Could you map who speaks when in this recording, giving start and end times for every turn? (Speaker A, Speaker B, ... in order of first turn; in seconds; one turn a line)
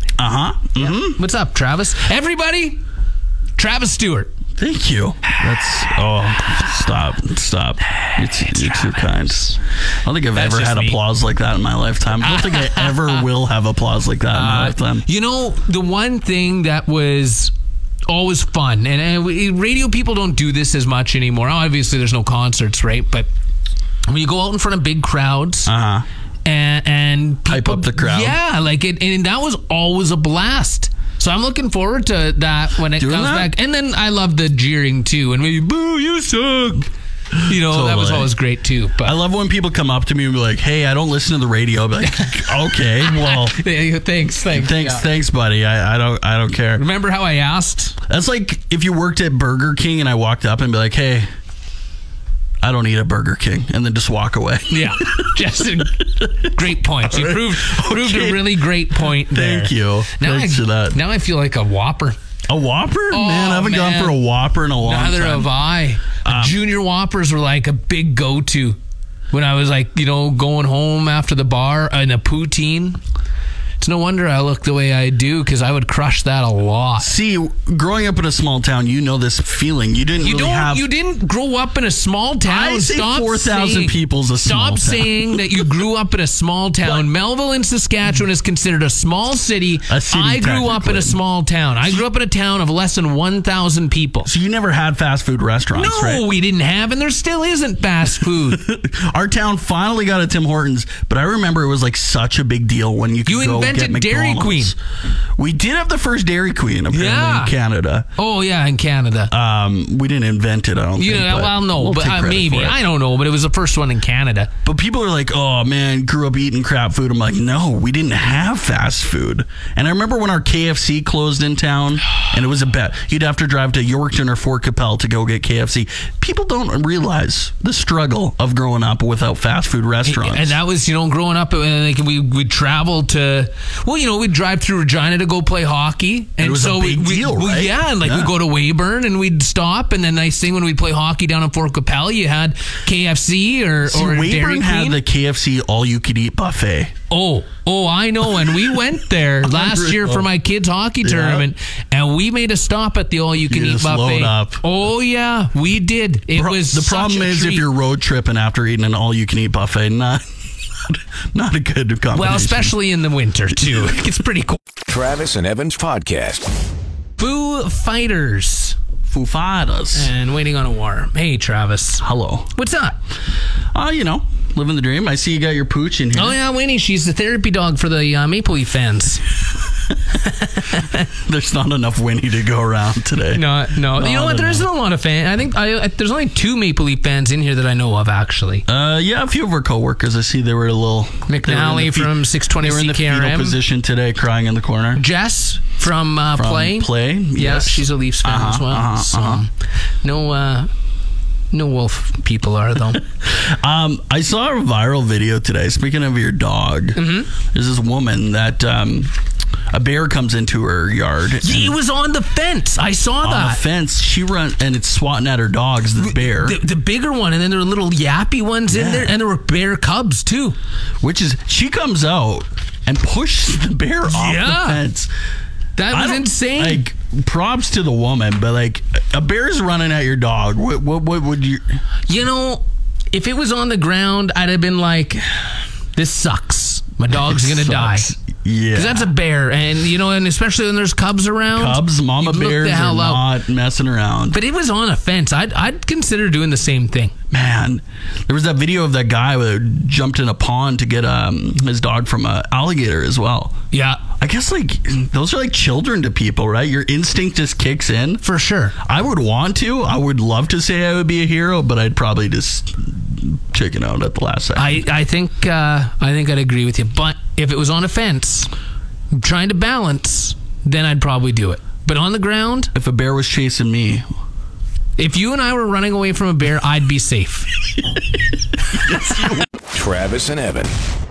Speaker A: 0.2-1.2
Speaker B: 0.8-2.8
Speaker B: 3.6-4.3
Speaker A: 4.6-15.1
Speaker B: 7.8-9.6
Speaker B: 10.3-11.0
Speaker B: 12.2-13.3
Speaker B: 14.3-17.5
Speaker B: 18.1-23.3
Speaker B: 24.1-25.7
Speaker A: 25.7-26.1
Speaker B: 26.4-36.9
Speaker A: 27.5-28.4
Speaker A: 33.0-33.5
Speaker A: 37.3-38.3
Speaker B: 37.4-39.2
Speaker A: 39.0-43.6
Speaker B: 42.0-45.0
Speaker A: 44.5-46.8
Speaker B: 46.8-48.0
Speaker A: 48.1-51.3
Speaker A: 52.6-61.0
Speaker B: 54.7-62.2
Speaker A: 62.5-65.5
Speaker B: 63.1-64.2
Speaker B: 64.8-68.8
Speaker A: 66.2-66.6
Speaker B: 69.3-73.0
Speaker B: 73.8-77.1
Speaker A: 77.0-80.9
Speaker B: 80.2-94.3
Speaker A: 82.5-85.6
Speaker A: 89.9-91.2
Speaker A: 94.2-96.2
Speaker B: 95.8-98.7
Speaker A: 98.3-104.8
Speaker B: 103.3-104.7
Speaker A: 105.4-108.1
Speaker B: 106.9-107.5
Speaker B: 108.2-109.3
Speaker A: 109.3-112.8
Speaker B: 111.0-114.5
Speaker A: 114.7-130.6
Speaker B: 130.1-145.0
Speaker A: 136.4-138.3
Speaker A: 143.8-146.9
Speaker B: 147.1-157.7
Speaker A: 149.4-150.3
Speaker A: 151.0-151.5
Speaker A: 153.5-154.6
Speaker A: 156.3-162.7
Speaker B: 162.1-164.6
Speaker A: 163.6-164.0
Speaker C: 164.9-166.6
Speaker B: 167.2-168.8
Speaker A: 169.1-170.1
Speaker B: 169.9-173.0
Speaker A: 172.0-172.5
Speaker A: 173.7-176.4
Speaker B: 176.1-179.2
Speaker B: 180.2-181.1
Speaker A: 181.1-184.7
Speaker B: 183.3-188.7
Speaker A: 188.7-195.0
Speaker B: 191.3-193.6
Speaker B: 195.0-199.5
Speaker A: 196.4-199.4
Speaker B: 200.0-200.7
Speaker B: 201.5-203.0
Speaker A: 203.2-209.1
Speaker B: 207.0-207.3
Speaker A: 209.7-211.8
Speaker B: 211.4-213.6
Speaker A: 213.2-216.6
Speaker B: 216.0-220.6
Speaker A: 218.7-219.2
Speaker A: 221.0-225.1
Speaker B: 224.1-224.8
Speaker B: 225.8-226.8
Speaker A: 225.9-231.8
Speaker B: 232.1-238.1
Speaker A: 237.3-239.1
Speaker B: 238.7-243.2
Speaker A: 241.5-244.4
Speaker B: 244.3-247.1
Speaker A: 247.3-253.6
Speaker B: 253.7-254.0
Speaker A: 254.2-258.2
Speaker B: 258.2-258.8
Speaker A: 258.8-264.8
Speaker B: 264.6-268.5
Speaker B: 269.1-272.7
Speaker A: 272.7-274.1
Speaker B: 275.0-277.5
Speaker A: 278.7-279.5
Speaker C: 279.7-280.7